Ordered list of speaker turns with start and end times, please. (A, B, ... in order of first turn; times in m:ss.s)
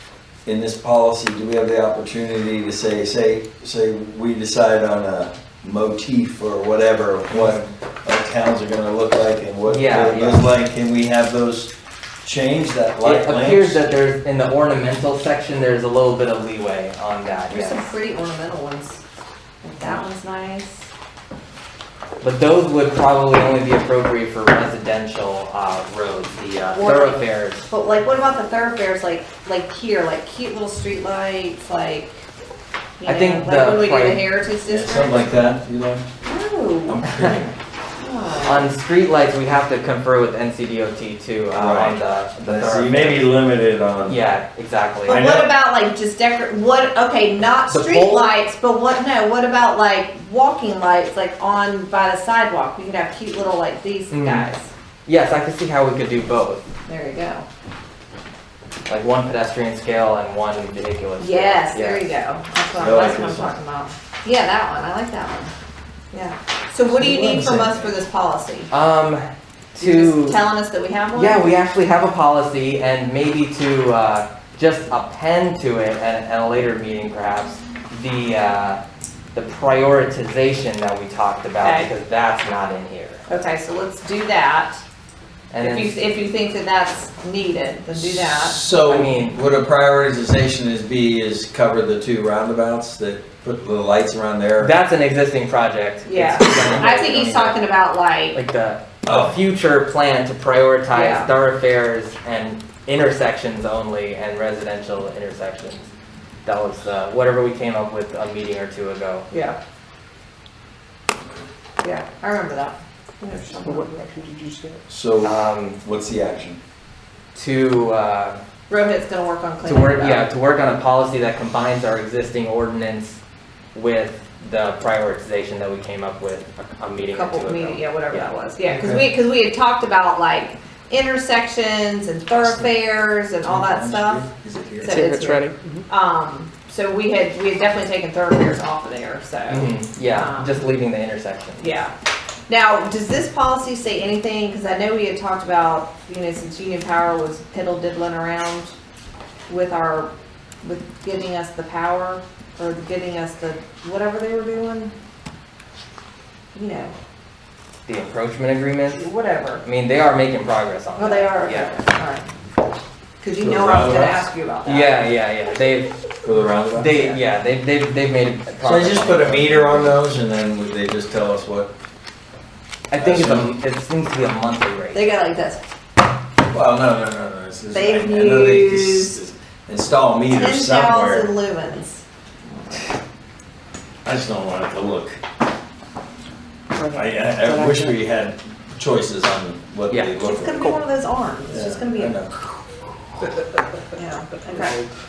0:00.5-0:11.7 A
0:07.3-0:07.7 B
0:09.7-0:10.5 B
0:12.2-0:13.8 A
0:13.0-0:17.8 B
0:17.5-0:19.0 C
0:19.6-0:20.9 C
0:22.2-0:27.7 B
0:26.7-0:32.2 C
0:33.0-0:35.4 C
0:33.0-0:34.2 B
0:34.6-0:36.0 A
0:36.2-0:37.0 C
0:36.9-0:37.5 A
0:38.0-0:38.7 C
0:38.5-0:43.4 B
0:41.6-0:44.2 A
0:44.0-0:45.2 B
0:45.1-0:54.7 C
0:45.1-0:45.5 A
0:47.7-0:48.3 B
0:54.1-0:54.5 B
0:55.1-0:56.6 B
0:56.9-0:57.5 C
0:58.9-1:02.1 B
1:01.2-1:05.5 C
1:02.8-1:03.5 A
1:06.1-1:08.7 C
1:06.9-1:07.8 A
1:08.7-1:10.4 B
1:09.8-1:11.5 C
1:11.1-1:18.8 B
1:19.3-1:23.2 B
1:21.6-1:21.9 C
1:23.3-1:24.8 C
1:25.5-1:26.0 B
1:25.6-1:28.7 C
1:27.9-1:34.7 A
1:28.8-1:29.4 B
1:34.6-1:37.6 B
1:36.1-1:38.4 C
1:38.3-1:45.9 B
1:39.0-1:39.4 A
1:40.9-1:41.3 C
1:46.4-1:49.3 B
1:49.3-1:49.6 C
1:51.8-1:54.0 C
1:53.4-1:54.8 D
1:54.9-1:56.6 A
1:55.2-1:55.8 B
1:57.3-1:58.4 B
1:58.7-2:00.3 C
1:59.6-2:03.2 B
2:03.7-2:08.3 B
2:07.1-2:14.3 C
2:08.7-2:09.1 A
2:12.4-2:12.7 A
2:13.4-2:15.0 A
2:14.8-2:20.5 C
2:14.9-2:15.8 D
2:19.5-2:21.8 B
2:21.6-2:21.9 C
2:22.5-2:28.7 C
2:29.5-2:30.1 C
2:30.6-2:35.0 C
2:36.6-2:36.9 C
2:37.9-2:39.0 B
2:38.9-2:39.6 C
2:39.6-2:41.7 B
2:41.0-2:42.3 C
2:43.2-2:45.0 C
2:43.4-2:44.3 A
2:44.7-2:45.9 B
2:46.2-2:47.2 A
2:46.8-2:50.0 B
2:48.6-2:51.7 A
2:52.9-2:55.1 B
2:53.0-2:53.5 A
2:54.9-2:55.6 C
2:56.5-3:01.3 A
2:57.7-2:59.2 C
3:00.3-3:02.8 C
3:04.0-3:05.2 A
3:06.8-3:08.0 D
3:06.9-3:10.8 A
3:10.2-3:12.2 C
3:11.5-3:12.3 A
3:14.0-3:14.8 C